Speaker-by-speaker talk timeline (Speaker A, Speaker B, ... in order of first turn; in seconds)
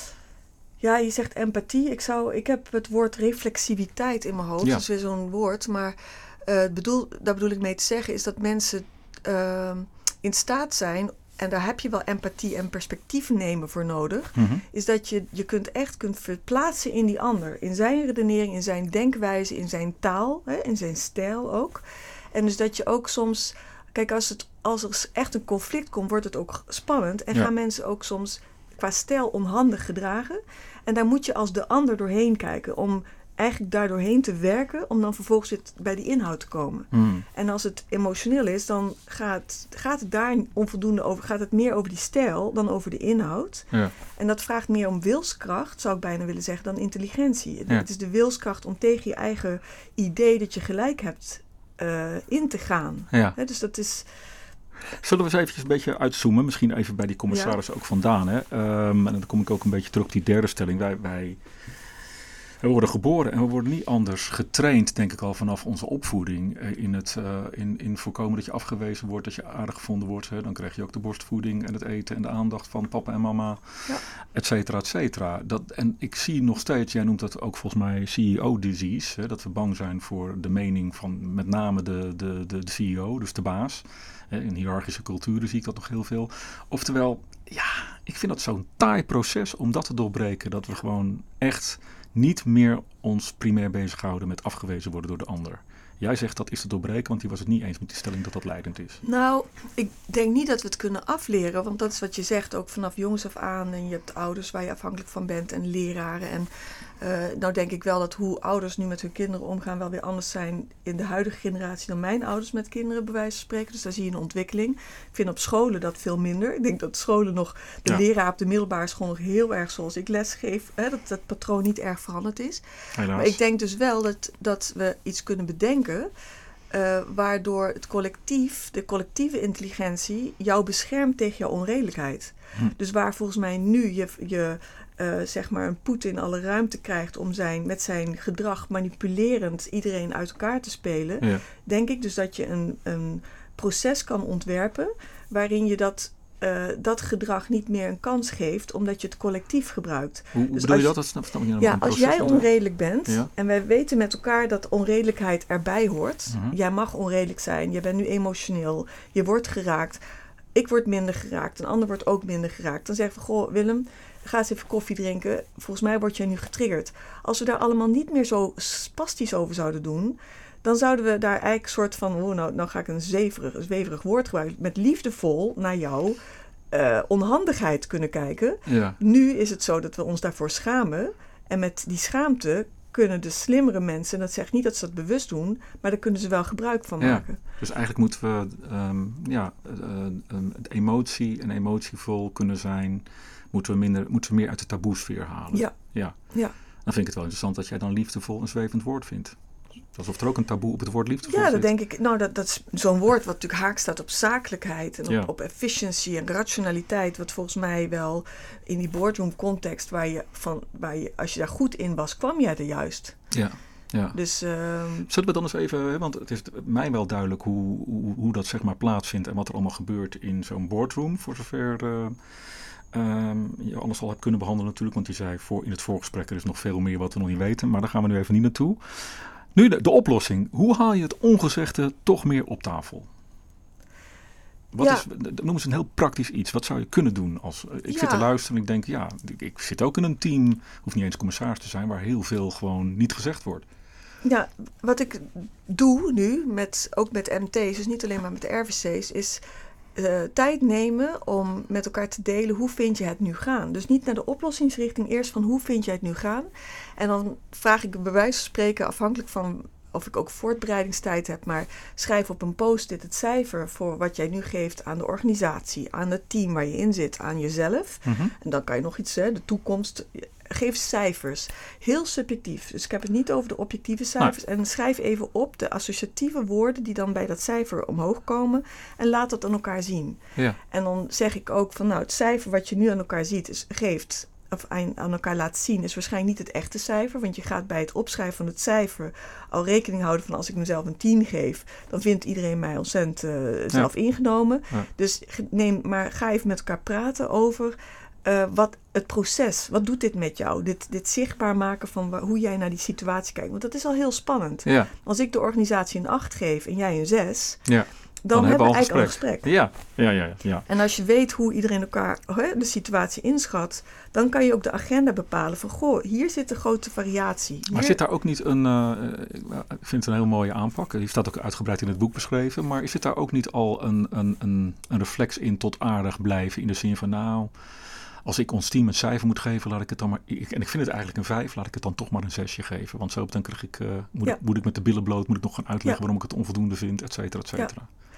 Speaker A: 0.8-54.1, 57.3-57.6, 99.0-106.5, 107.0-126.1, 126.7-150.9, 151.6-160.0, 160.5-176.2, 176.7-187.4, 196.3-196.5, 201.2-213.2, 214.1-215.1, 234.8-235.1, 237.9-238.3, 244.2-249.4, 250.0-307.6, 308.2-309.5, 310.7-318.0
Speaker B: 14.3-14.6, 36.9-37.2, 53.1-53.4, 55.0-61.4, 62.6-73.8, 74.3-99.0, 123.0-123.4, 150.3-152.5, 156.3-156.6, 178.7-179.0, 187.0-196.2, 196.8-199.4, 199.9-201.7, 213.3-214.2, 215.1-222.2, 222.9-233.1, 234.7-243.7, 268.1-268.3, 304.6-304.9, 307.7-310.7, 317.7-327.5, 328.2-337.9